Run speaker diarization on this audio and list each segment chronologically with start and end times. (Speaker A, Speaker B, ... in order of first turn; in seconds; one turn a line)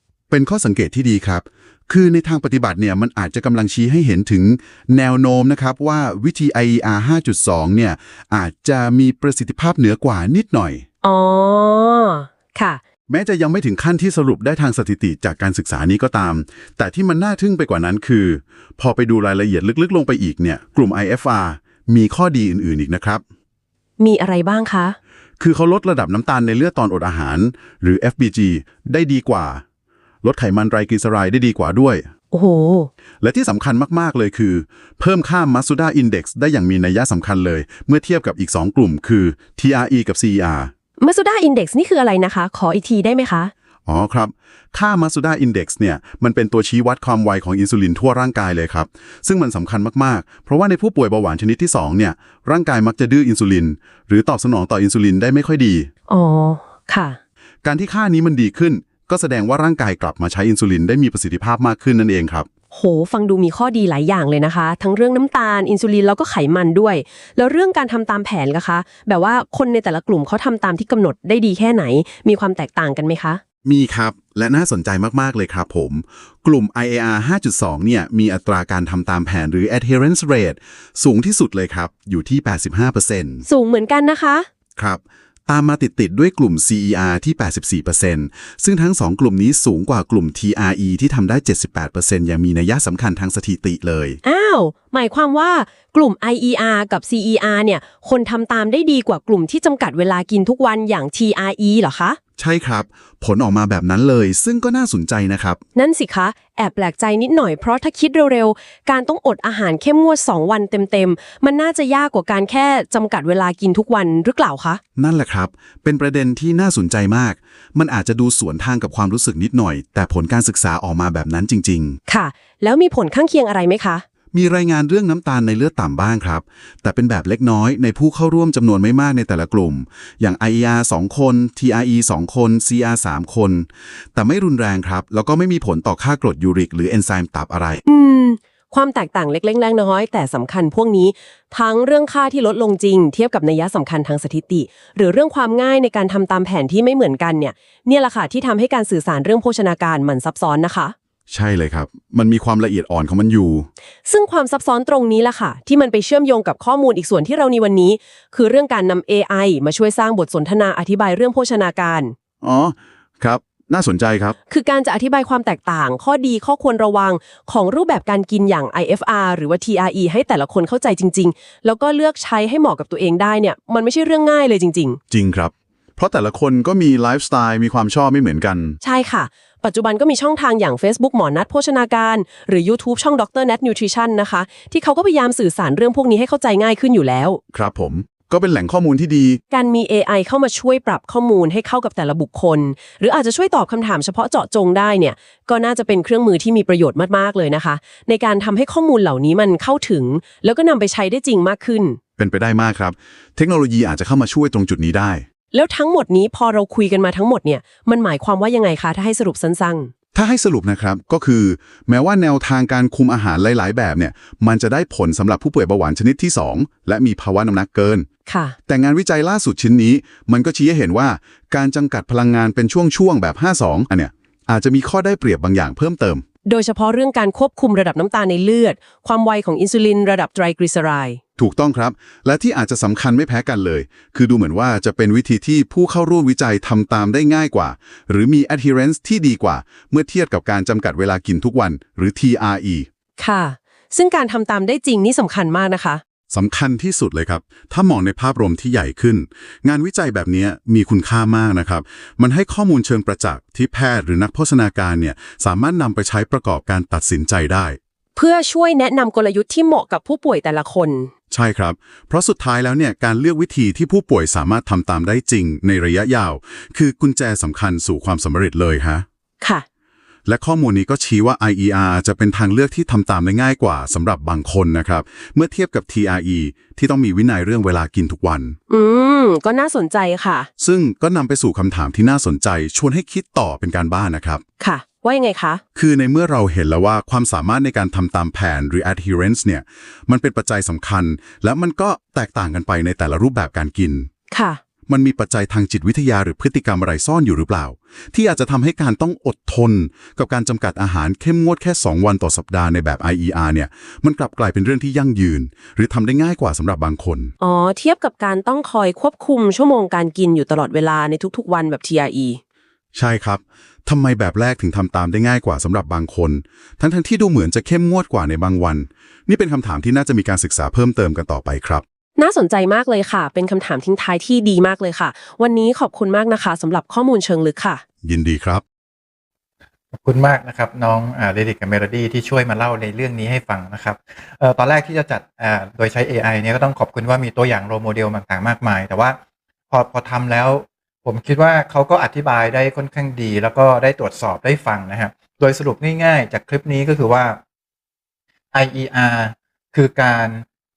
Speaker A: 0.3-10.8
Speaker B: 11.0-12.8
Speaker A: 13.1-23.2
Speaker B: 24.0-25.0
Speaker A: 25.4-29.6
Speaker A: 30.2-32.1
Speaker B: 32.3-32.9
Speaker A: 33.2-40.7
Speaker B: 41.0-43.5
Speaker A: 43.9-55.9
Speaker B: 56.1-57.2
Speaker A: 57.6-62.5
Speaker B: 62.7-73.4
Speaker A: 73.7-83.5
Speaker B: 83.5-84.5
Speaker A: 84.8-94.2
Speaker B: 94.2-102.2
Speaker A: 102.4-105.6
Speaker B: 105.8-114.8
Speaker A: 115.0-122.0
Speaker B: 122.1-124.0
Speaker A: 124.3-137.8
Speaker B: 137.9-150.9
Speaker A: 151.3-153.7
Speaker B: 154.1-162.2
Speaker A: 162.4-164.4
Speaker B: 164.5-175.0
Speaker A: 175.1-178.8
Speaker B: 178.8-187.4
Speaker A: 187.5-189.4
Speaker B: 189.5-202.0
Speaker A: 202.2-205.2
Speaker B: 205.5-209.9
Speaker A: 210.1-218.1
Speaker B: 218.3-218.6
Speaker A: 218.7-226.2
Speaker B: 226.5-231.2
Speaker A: 231.4-242.9
Speaker B: 243.2-246.0
Speaker A: 246.3-257.8
Speaker B: 258.2-261.1
Speaker A: 261.3-269.1
Speaker A: 270.3-278.6
Speaker B: 278.7-280.5
Speaker A: 280.6-284.4
Speaker B: 284.6-285.6
Speaker A: 285.8-294.1
Speaker B: 294.3-294.6
Speaker A: 294.9-307.3
Speaker B: 307.4-312.4
Speaker A: 312.9-321.8
Speaker B: 322.2-327.8
Speaker A: 328.0-328.6
Speaker C: 329.9-339.2
Speaker C: 339.7-347.4
Speaker C: 348.5-350.4